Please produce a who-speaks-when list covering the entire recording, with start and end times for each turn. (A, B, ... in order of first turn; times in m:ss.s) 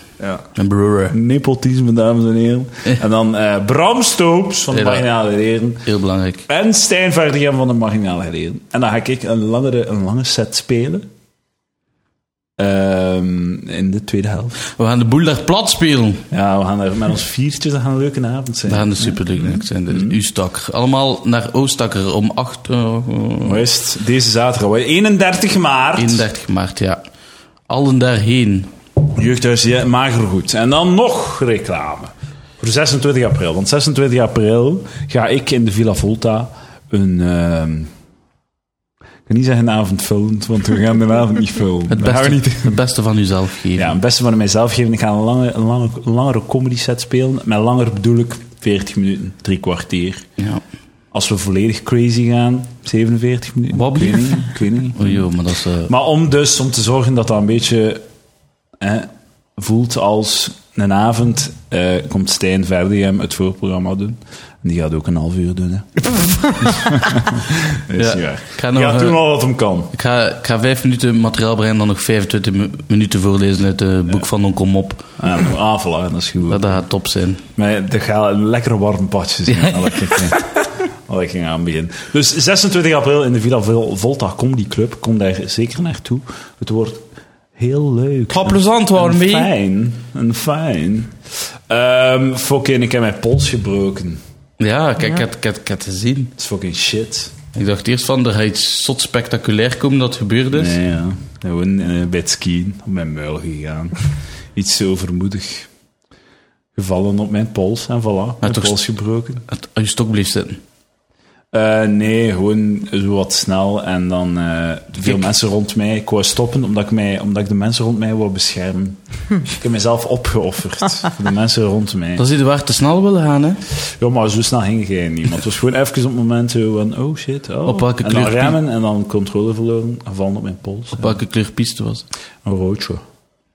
0:00.2-0:00.5 A
0:00.6-0:01.2 B
0:01.1-0:05.9 A
0:04.7-0:05.1 B
0:05.8-0:06.4 B
0:06.5-0:11.1 A
0:12.6-0:14.6 A
0:14.7-0:16.3 B
0:16.3-0:20.2 A
0:18.7-0:23.6 B
0:23.4-0:26.3 A
0:26.0-0:27.0 B
0:27.7-0:28.7 B
0:29.1-0:37.9 A
0:39.3-0:42.8 A
0:41.9-0:43.9 B
0:43.8-0:50.3 A
0:50.4-0:50.6 B
0:51.1-0:55.3 A
0:53.7-0:55.9 B
0:55.8-0:58.0 A
0:58.8-1:10.0 A
1:07.9-1:09.2 B
1:09.9-1:15.1 B
1:15.2-1:16.8 A
1:16.5-1:17.4 B
1:17.6-1:20.6 A
1:19.5-1:20.4 B
1:21.1-1:27.0 A
1:27.6-1:31.2 A
1:28.3-1:29.5 B
1:31.7-1:34.2 A
1:34.6-1:36.3 B
1:36.4-1:37.3 A
1:37.5-1:40.8 B
1:40.5-1:44.0 A
1:44.6-1:45.7 A
1:46.8-1:49.4 A
1:48.4-1:48.8 B
1:49.5-1:50.6 B
1:51.5-2:02.2 A
1:55.0-1:55.3 B
2:02.2-2:03.6 B
2:04.0-2:11.2 A
2:07.7-2:08.6 B
2:10.9-2:12.1 B
2:12.4-2:13.0 A